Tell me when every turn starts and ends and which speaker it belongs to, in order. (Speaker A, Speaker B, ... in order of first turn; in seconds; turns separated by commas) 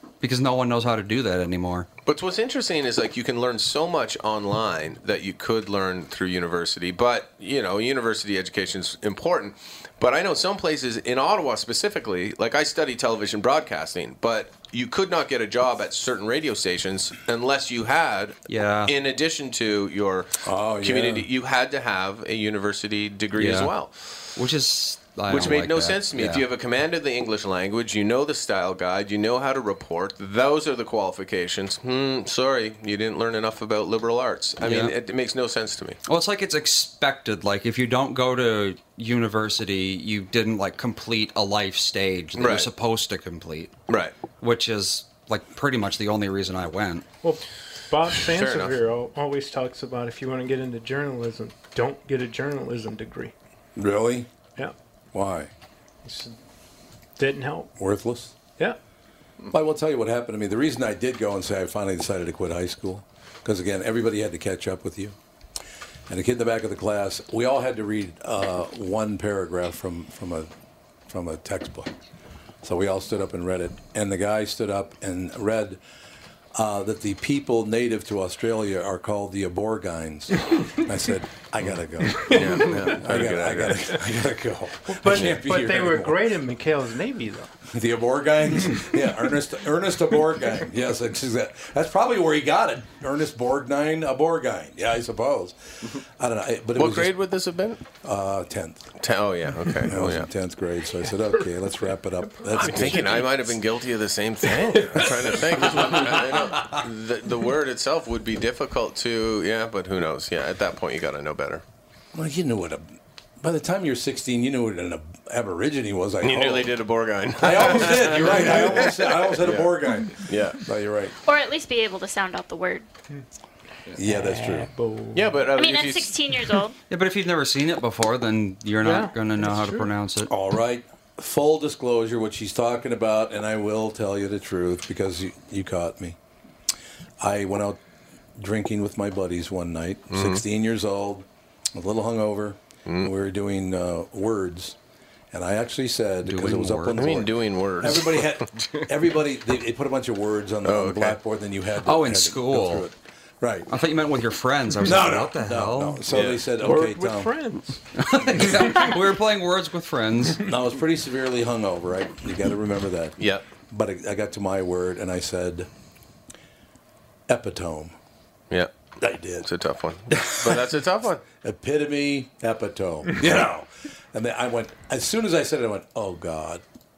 Speaker A: 0.2-1.9, Speaker B: 2.0-24.3, Speaker A: 18.5-18.9, Speaker C: 20.4-21.3, Speaker A: 23.4-23.7, Speaker A: 24.4-26.4, Speaker B: 25.3-36.0, Speaker A: 34.6-34.9, Speaker A: 36.0-43.7, Speaker B: 42.4-42.7, Speaker B: 43.9-44.1, Speaker A: 44.4-47.0, Speaker D: 47.2-53.3, Speaker B: 48.3-48.7, Speaker C: 53.8-54.3, Speaker C: 55.1-55.5, Speaker D: 56.0-56.3, Speaker D: 57.2-57.7, Speaker C: 57.8-58.3, Speaker C: 59.5-65.2, Speaker C: 66.1-70.5, Speaker C: 71.1-71.9, Speaker C: 72.6-75.8, Speaker C: 76.5-86.3, Speaker D: 82.2-82.8, Speaker B: 82.3-83.9, Speaker D: 84.9-87.5, Speaker C: 87.7-97.1, Speaker B: 96.8-97.8, Speaker C: 98.0-98.9, Speaker B: 99.0-100.3, Speaker C: 99.8-103.3, Speaker D: 102.5-103.2, Speaker B: 102.5-111.6, Speaker C: 104.7-106.7, Speaker C: 112.1-116.7, Speaker B: 116.2-120.6, Speaker C: 117.4-121.1, Speaker E: 121.3-122.8, Speaker C: 123.9-124.7, Speaker D: 124.0-125.3, Speaker B: 125.1-126.1, Speaker E: 125.5-126.8, Speaker A: 126.9-130.3, Speaker D: 128.8-129.9, Speaker C: 130.3-136.2, Speaker C: 137.2-137.8, Speaker C: 138.4-144.8, Speaker B: 140.1-140.4, Speaker C: 145.3-153.7, Speaker A: 146.2-147.1, Speaker B: 147.0-148.4, Speaker B: 150.6-151.2, Speaker A: 151.8-152.8, Speaker A: 153.7-156.0, Speaker C: 154.8-157.4, Speaker B: 156.1-156.4, Speaker D: 156.6-157.8, Speaker A: 157.9-160.4, Speaker C: 160.4-165.7, Speaker B: 163.2-163.4, Speaker C: 167.3-167.9, Speaker C: 169.0-169.5, Speaker B: 169.4-171.2, Speaker C: 170.1-170.7, Speaker C: 171.4-176.6